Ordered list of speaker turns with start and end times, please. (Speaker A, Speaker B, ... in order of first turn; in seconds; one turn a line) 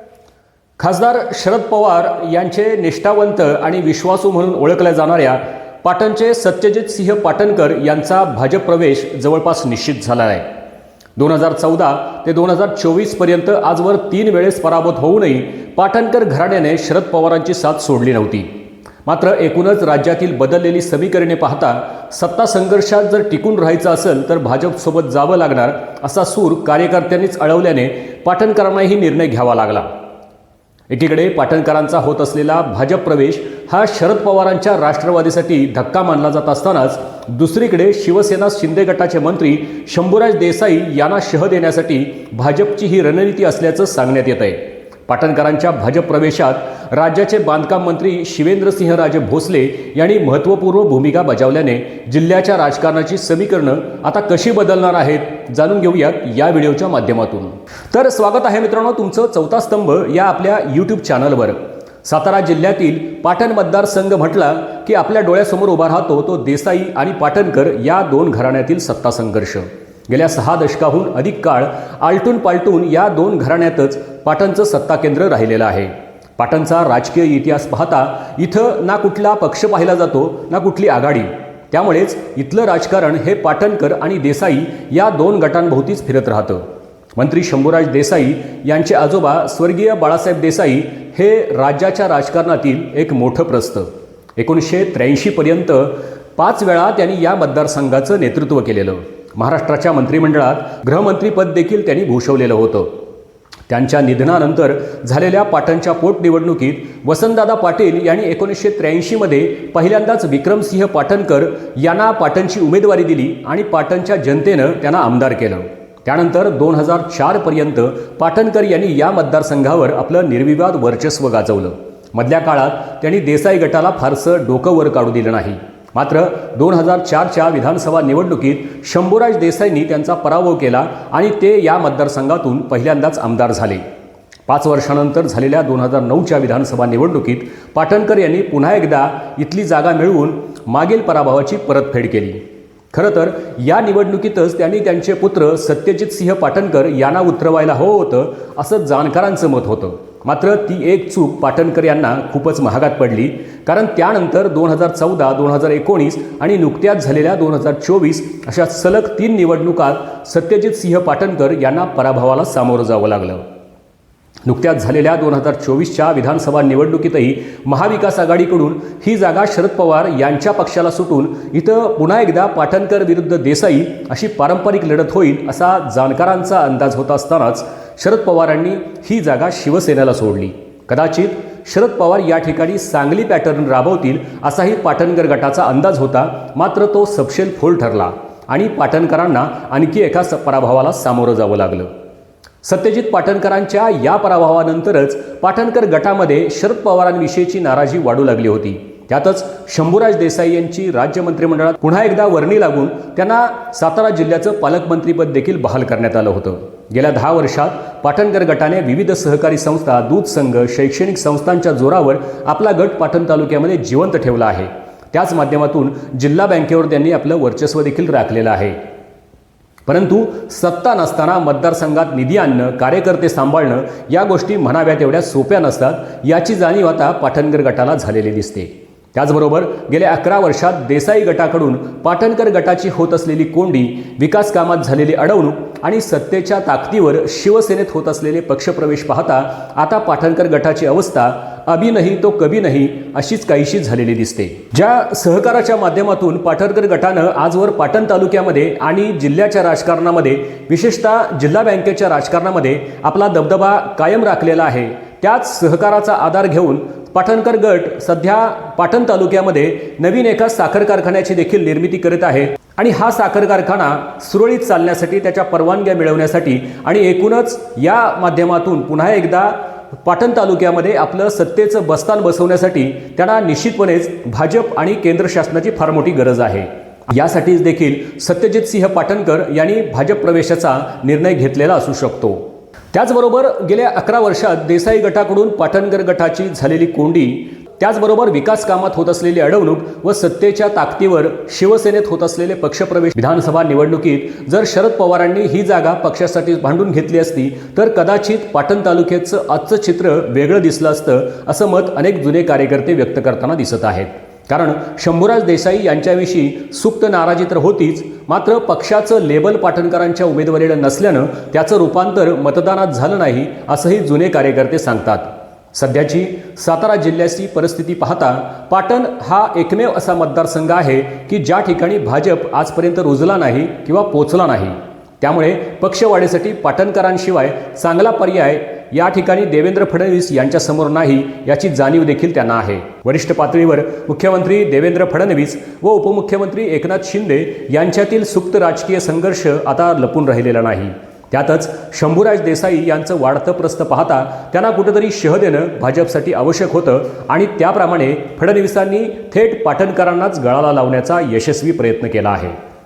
Speaker A: 0.8-10.5
Speaker A: 11.2-18.5
Speaker A: 19.1-29.9
Speaker A: 30.9-86.6
Speaker A: 87.2-102.9
Speaker A: 103.7-133.8
Speaker A: 134.5-142.4
Speaker A: 142.9-163.4
Speaker A: 164.5-191.9
Speaker A: 192.6-218.8
Speaker A: 219.9-282.4
Speaker A: 282.9-352.6